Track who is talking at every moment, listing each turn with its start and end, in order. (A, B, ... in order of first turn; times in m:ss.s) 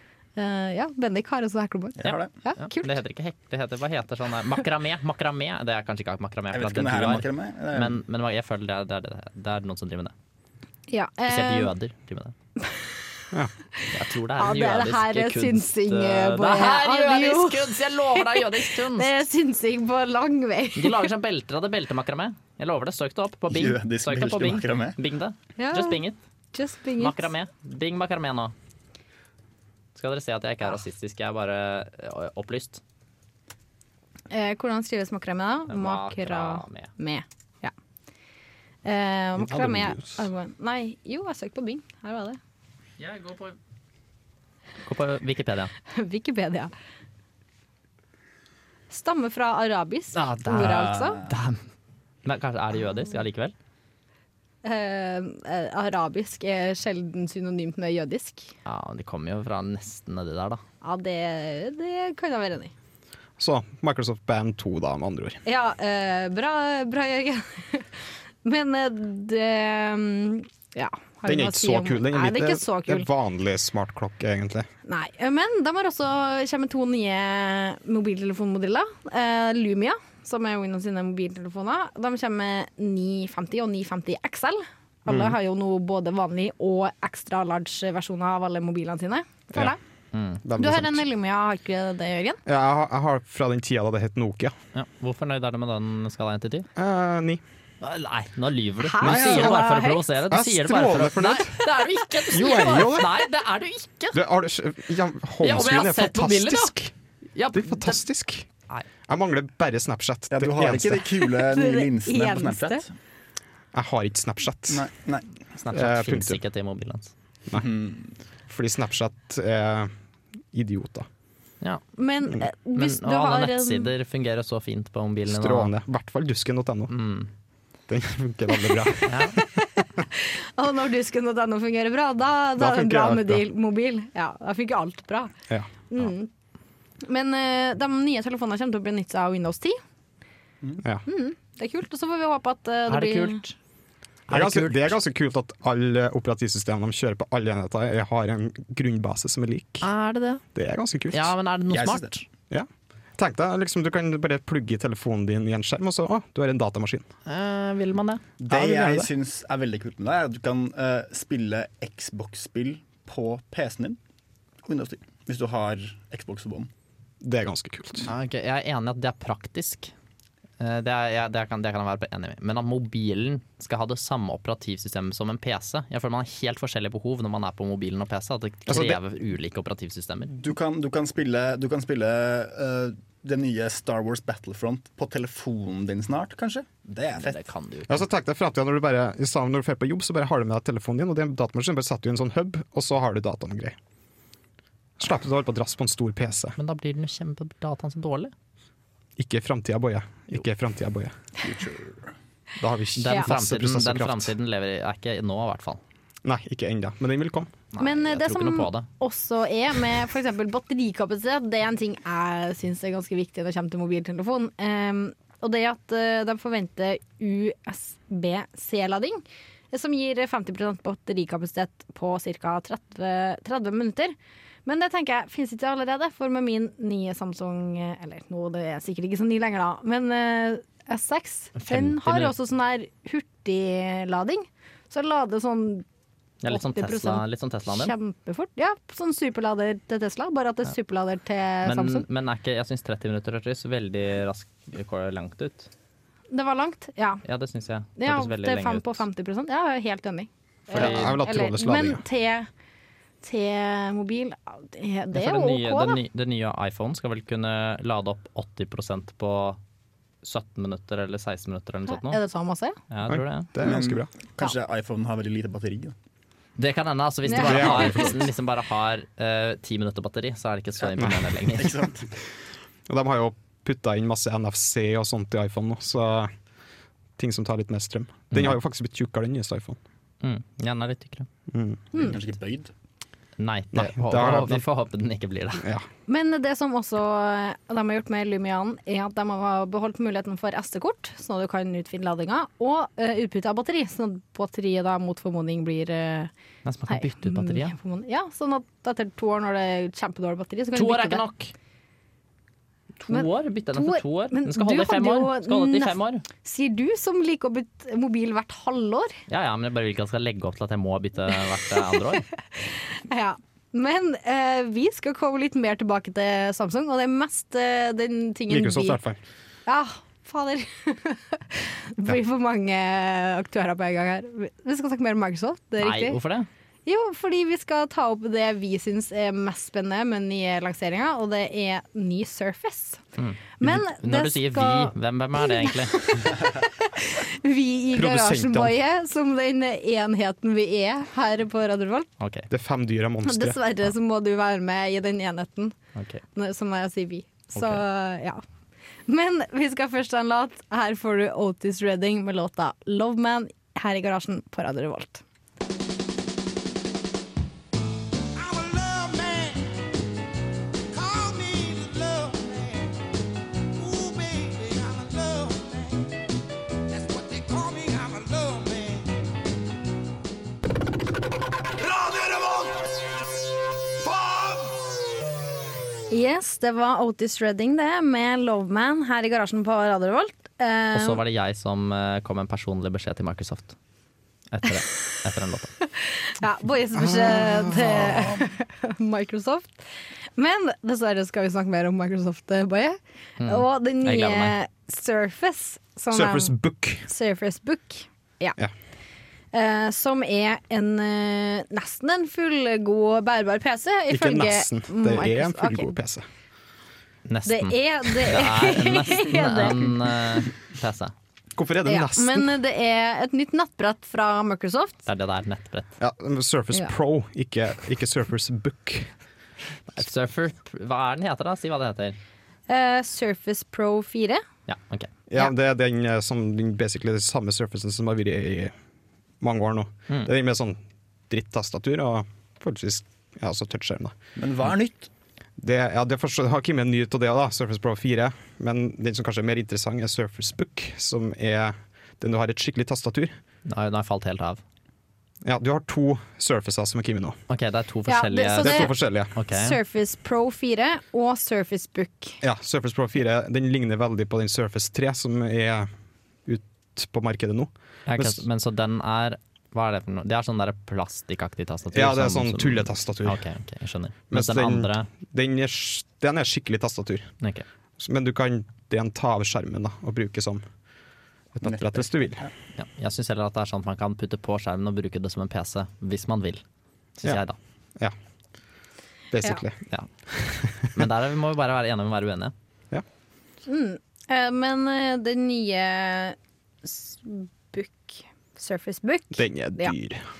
0:00.4-0:02.9 A
0:02.0-0:02.3 B
0:02.0-0:10.1 C
0:06.5-0:08.0 B
0:10.9-0:11.7 A
0:11.3-0:12.3 C
0:13.9-0:19.1 C
0:14.4-0:21.1 A
0:20.8-0:26.2 C
0:23.5-0:25.0 B
0:25.6-0:26.0 A
0:26.5-0:27.2 A
0:27.0-0:28.5 C
0:29.9-0:32.8 C
0:34.3-0:37.7 A
0:35.7-0:36.9 C
0:38.8-0:42.4 A
0:39.4-0:40.2 D
0:43.0-0:43.6 C
0:44.8-0:45.7 C
0:45.9-0:46.7 A
0:48.9-0:51.2 A
0:50.1-0:51.6 C
0:50.5-0:51.3 B
0:52.2-0:53.5 C
0:54.6-0:58.5 A
0:58.6-1:00.6 C
1:00.8-1:02.7 A
1:03.4-1:05.4 D
1:05.4-1:07.9 A
1:08.4-1:13.1 A
1:11.2-1:14.7 D
1:14.9-1:29.8 A
1:25.1-1:25.4 D
1:30.1-1:30.4 C
1:30.4-1:31.0 D
1:30.6-1:32.4 A
1:32.4-1:34.5 D
1:34.7-1:36.7 C
1:36.8-1:37.4 D
1:37.8-1:44.2 C
1:38.8-1:40.0 A
1:39.0-1:39.8 D
1:40.3-1:43.2 D
1:44.1-1:46.9 D
1:45.4-1:46.8 C
1:47.3-1:48.0 C
1:47.5-1:48.5 D
1:49.1-1:51.1 D
1:50.3-1:52.9 B
1:51.4-1:52.8 A
1:53.7-1:54.9 D
1:54.7-1:55.3 B
1:55.6-1:57.1 C
1:55.7-1:56.4 D
1:57.5-1:58.1 B
1:58.5-1:59.9 D
2:00.5-2:01.1 D
2:02.0-2:03.9 A
2:02.8-2:05.7 C
2:05.3-2:06.9 D
2:06.9-2:07.3 C
2:07.9-2:09.3 D
2:09.0-2:09.4 C
2:09.4-2:15.3 A
2:12.6-2:13.4 D
2:15.9-2:16.3 A
2:17.0-2:19.8 A
2:21.0-2:23.4 A
2:22.9-2:23.5 C
2:24.3-2:25.0 C
2:24.3-2:29.9 D
2:29.8-2:30.4 C
2:30.5-2:31.3 D
2:31.1-2:32.2 C
2:31.7-2:32.1 B
2:32.5-2:37.1 D
2:37.2-2:38.2 C
2:38.4-2:44.0 B
2:38.5-2:38.9 D
2:44.6-2:46.7 B
2:47.2-2:48.1 D
2:48.0-2:49.9 C
2:50.6-3:00.3 C
2:58.7-2:59.0 D
3:00.4-3:07.4 B
3:07.2-3:08.0 C
3:07.9-3:13.8 D
3:15.0-3:16.6 D
3:16.6-3:18.3 C
3:19.2-3:21.1 D
3:21.4-3:22.1 B
3:22.6-3:24.3 D
3:23.0-3:25.8 C
3:26.2-3:27.5 D
3:27.7-3:28.9 C
3:27.8-3:55.8 A
3:51.6-3:52.3 C
3:56.4-3:57.9 C
3:56.5-4:02.0 A
4:01.6-4:05.7 C
4:06.3-4:07.2 A
4:07.2-4:09.0 C
4:08.0-4:12.5 A
4:10.7-4:11.2 C
4:10.7-4:12.0 D
4:13.2-4:16.0 A
4:15.1-4:19.6 C
4:20.2-4:22.2 C
4:21.9-4:22.8 A
4:22.9-4:23.5 C
4:23.0-4:24.1 D
4:23.6-4:25.9 B
4:26.6-4:31.8 C
4:27.3-4:28.1 A
4:27.3-4:28.3 D
4:31.0-4:32.1 B
4:32.9-4:36.3 D
4:37.2-4:39.8 D
4:40.2-4:41.3 C
4:41.5-4:42.0 D
4:41.9-4:42.7 B
4:43.4-4:45.6 C
4:43.7-4:44.6 D
4:45.6-4:45.8 D
4:46.1-4:56.3 A
4:56.6-4:57.7 C
4:56.9-5:01.2 A
5:00.8-5:01.5 C
5:03.0-5:06.2 C
5:03.1-5:09.2 A
5:09.3-5:12.2 C
5:12.2-5:19.0 A
5:18.5-5:19.2 D
5:19.6-5:26.2 A
5:25.8-5:26.5 C
5:26.9-5:33.0 A
5:33.2-5:36.3 C
5:33.6-5:42.1 A
5:37.9-5:38.8 D
5:42.2-5:42.5 C
5:42.5-5:43.6 D
5:43.2-5:45.8 A
5:46.0-5:46.2 C
5:46.3-5:48.4 A
5:47.6-5:47.8 C
5:49.1-5:55.2 A
5:58.3-5:59.7 E
6:00.9-6:03.0 E
6:03.8-6:06.0 E
6:06.9-6:09.1 E
6:11.8-6:12.8 E
6:14.0-6:14.7 E
6:16.1-6:21.2 A
6:20.9-6:23.8 C
6:24.5-6:25.7 C
6:26.0-6:29.8 A
6:26.9-6:28.3 D
6:30.4-6:38.6 A
6:33.4-6:34.6 C
6:36.1-6:37.1 D
6:39.5-6:46.0 A
6:44.1-6:46.2 D
6:47.2-6:51.1 C
6:47.4-6:49.9 A
6:51.6-6:52.5 D
6:51.9-6:55.0 A
6:55.1-6:55.9 C
6:56.0-6:59.1 D
6:59.9-7:02.2 C
7:02.7-7:04.4 A
7:04.7-7:05.1 C
7:05.3-7:08.7 D
7:09.4-7:14.1 D
7:14.4-7:15.1 B
7:15.6-7:23.3 D
7:23.6-7:24.6 C
7:25.4-7:27.4 D
7:27.5-7:29.8 C
7:28.1-7:28.9 A
7:28.6-7:29.3 D
7:29.5-7:32.4 A
7:32.4-7:35.9 D
7:36.4-7:38.4 D
7:38.1-7:45.1 C
7:41.9-7:43.4 D
7:44.3-7:47.3 D
7:48.0-7:50.6 D
7:51.5-7:52.4 D
7:51.6-7:52.5 B
7:52.8-7:56.6 C
7:57.2-7:57.6 C
7:59.3-7:59.8 D
8:00.3-8:00.8 D
8:00.8-8:02.5 C
8:03.7-8:09.9 A
8:09.3-8:10.2 D